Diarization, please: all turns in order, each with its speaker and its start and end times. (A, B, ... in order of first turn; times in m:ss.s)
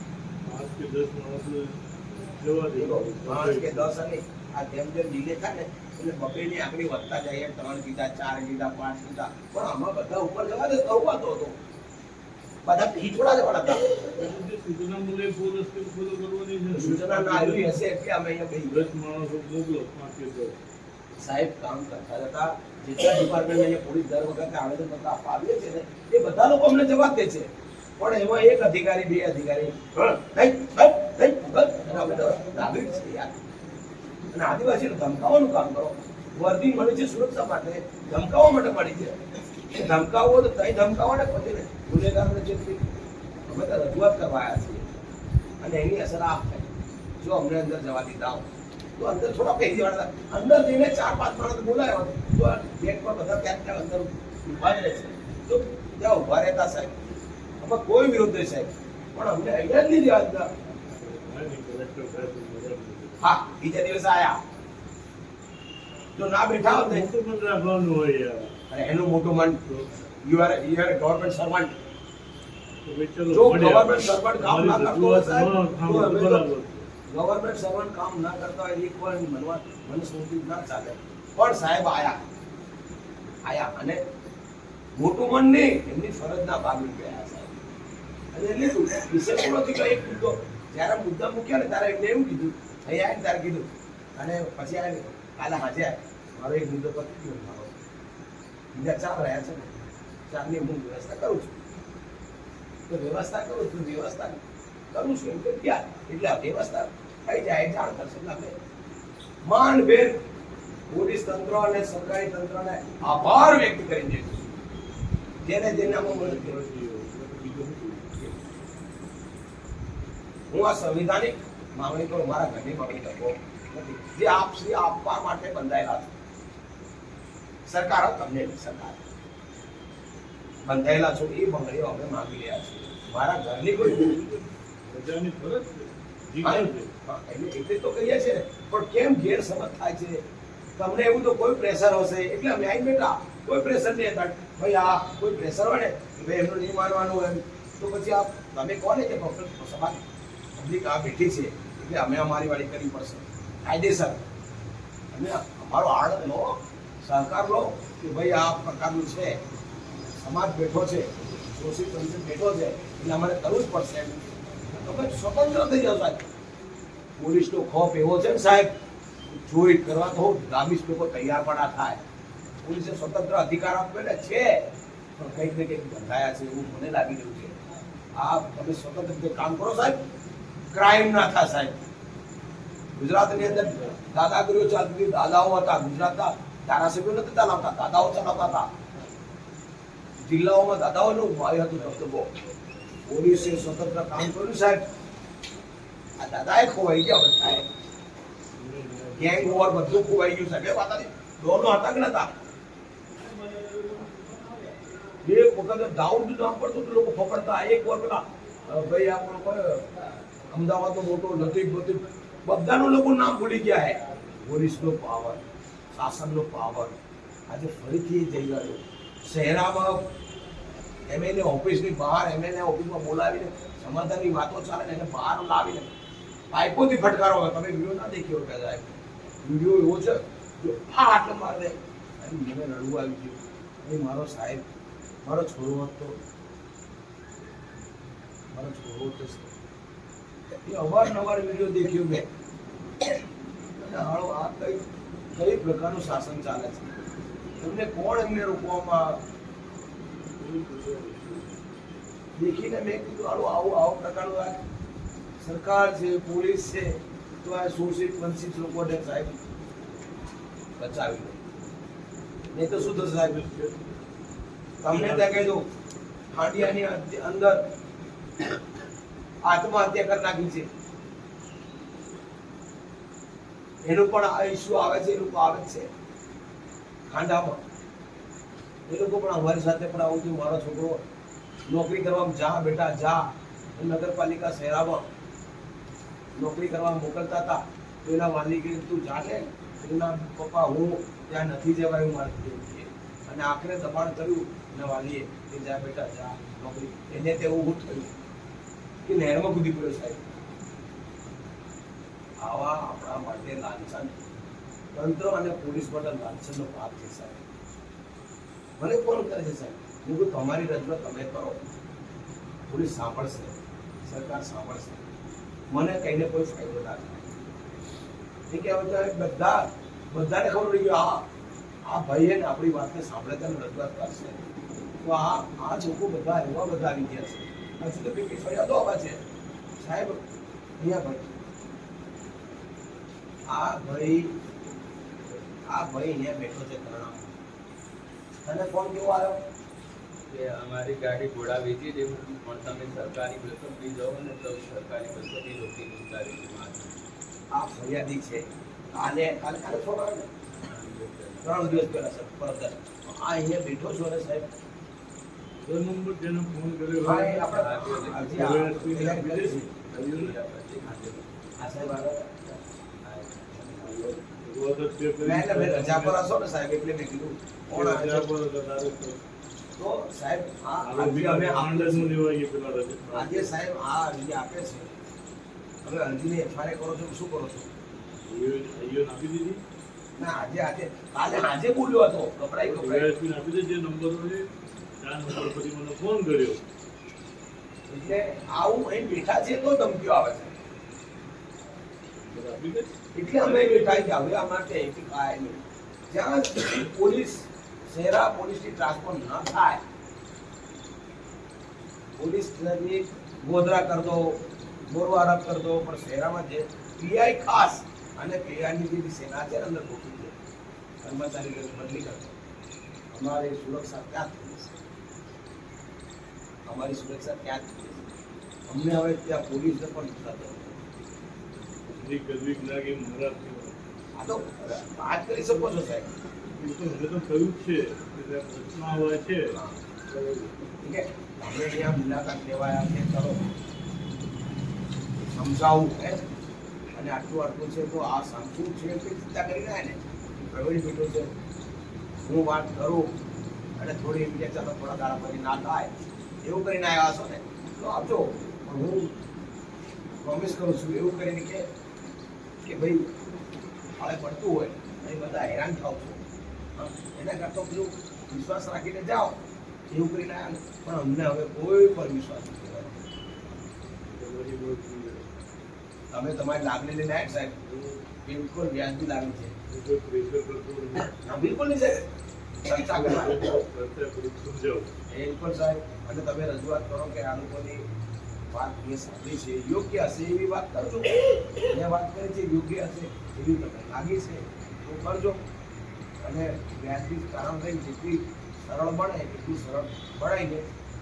0:00.4-0:04.0 A
0:02.8-0:11.6 B
0:12.6-0:14.3 B
0:14.1-0:17.7 A
0:16.7-0:18.9 B
0:18.7-0:20.6 A
0:21.2-0:33.3 B
0:34.3-0:42.8 B
0:43.5-0:44.9 B
0:45.6-0:48.5 B
0:49.0-0:57.0 B
0:57.6-1:00.5 B
1:00.9-1:03.3 A
1:03.2-1:04.4 B
1:06.2-1:07.1 B
1:06.6-1:08.6 A
1:08.7-1:09.6 B
1:09.6-1:09.9 A
1:10.2-1:11.7 B
1:12.8-1:16.9 A
1:13.3-1:16.4 B
1:17.1-1:22.2 B
1:23.4-1:24.0 B
1:25.0-1:27.6 B
1:28.3-1:37.8 B
1:38.7-1:39.8 B
1:40.3-1:41.5 B
1:42.9-1:48.6 B
1:49.4-1:50.2 B
1:50.9-1:54.4 B
1:55.4-1:56.6 B
1:55.6-1:58.3 A
2:00.5-2:06.2 B
2:07.7-2:09.1 B
2:10.6-2:14.2 B
2:13.8-2:16.9 A
2:16.4-2:20.2 B
2:20.8-2:30.0 B
2:30.6-2:34.2 B
2:35.1-2:39.4 B
2:40.1-2:46.3 B
2:47.2-2:48.7 B
2:49.3-2:52.0 B
2:52.6-2:57.6 B
2:58.1-3:00.0 B
3:00.7-3:01.8 B
3:03.0-3:08.7 B
3:03.3-3:04.0 A
3:10.2-3:12.3 B
3:13.1-3:14.8 B
3:16.2-3:17.7 B
3:18.6-3:20.2 A
3:19.2-3:22.3 B
3:23.2-3:24.9 A
3:25.2-3:29.9 B
3:30.5-3:35.4 B
3:35.9-3:37.0 B
3:37.5-3:40.1 B
3:41.1-3:45.9 B
3:46.5-3:54.6 B
3:55.2-3:56.2 B
3:58.5-3:59.5 B
4:00.6-4:02.3 B
4:03.8-4:04.8 B
4:05.3-4:07.1 B
4:07.6-4:09.2 B
4:10.4-4:11.6 A
4:12.4-4:14.6 B
4:15.4-4:19.4 B
4:20.8-4:21.4 B
4:22.5-4:23.4 B
4:22.6-4:23.8 A
4:24.8-4:25.7 B
4:24.9-4:25.6 A
4:26.3-4:27.6 B
4:29.4-4:30.7 B
4:33.8-4:35.9 B
4:37.1-4:37.6 B
4:38.9-4:41.0 B
4:41.7-4:43.2 B
4:43.8-4:45.1 B
4:46.4-4:58.2 B
4:59.0-5:00.3 B
5:02.4-5:04.1 B
5:04.9-5:07.4 B
5:08.8-5:11.6 B
5:12.7-5:15.0 B
5:15.7-5:17.3 B
5:18.5-5:21.2 B
5:21.8-5:24.4 B
5:25.0-5:29.2 B
5:29.8-5:30.2 B
5:30.8-5:31.3 B
5:33.5-5:34.4 B
5:35.7-5:37.3 B
5:38.4-5:39.4 B
5:40.3-5:47.0 C
5:47.5-5:50.3 B
5:50.6-5:52.0 C
5:51.4-5:54.5 B
5:55.6-5:57.6 A
5:57.0-5:59.7 B
5:57.5-6:02.0 C
5:58.3-6:00.3 A
6:01.6-6:02.5 B
6:03.0-6:04.1 C
6:03.8-6:06.2 A
6:05.2-6:08.3 B
6:07.7-6:09.2 A
6:09.8-6:12.1 B
6:10.8-6:13.5 A
6:13.1-6:14.9 B
6:15.8-6:17.7 B
6:18.3-6:19.6 A
6:20.2-6:23.1 B
6:22.6-6:24.5 A
6:25.0-6:26.6 A
6:27.9-6:30.6 B
6:32.3-6:34.2 A
6:33.2-6:39.8 B
6:42.2-6:50.4 B
6:51.0-6:52.4 B
6:53.1-6:54.8 B
6:56.7-6:58.1 B
6:58.7-7:00.8 B
7:01.9-7:03.9 A
7:04.2-7:06.1 B
7:06.6-7:09.6 A
7:09.5-7:09.8 B
7:10.1-7:10.5 A
7:10.8-7:13.4 B
7:15.3-7:16.2 B
7:16.9-7:21.3 B
7:22.2-7:23.1 B
7:23.8-7:25.9 B
7:26.4-7:29.1 B
7:30.2-7:31.6 B
7:32.6-7:33.1 B
7:34.0-7:36.2 B
7:36.8-7:39.4 B
7:39.9-7:43.0 B
7:44.1-7:45.5 A
7:46.1-7:47.6 B
7:47.6-7:48.0 A
7:48.2-7:49.6 B
7:49.7-7:51.2 A
7:51.1-7:52.1 B
7:52.6-7:53.6 B
7:52.7-7:54.9 A
7:55.1-7:57.8 B
7:58.5-8:05.4 B
8:06.2-8:10.7 B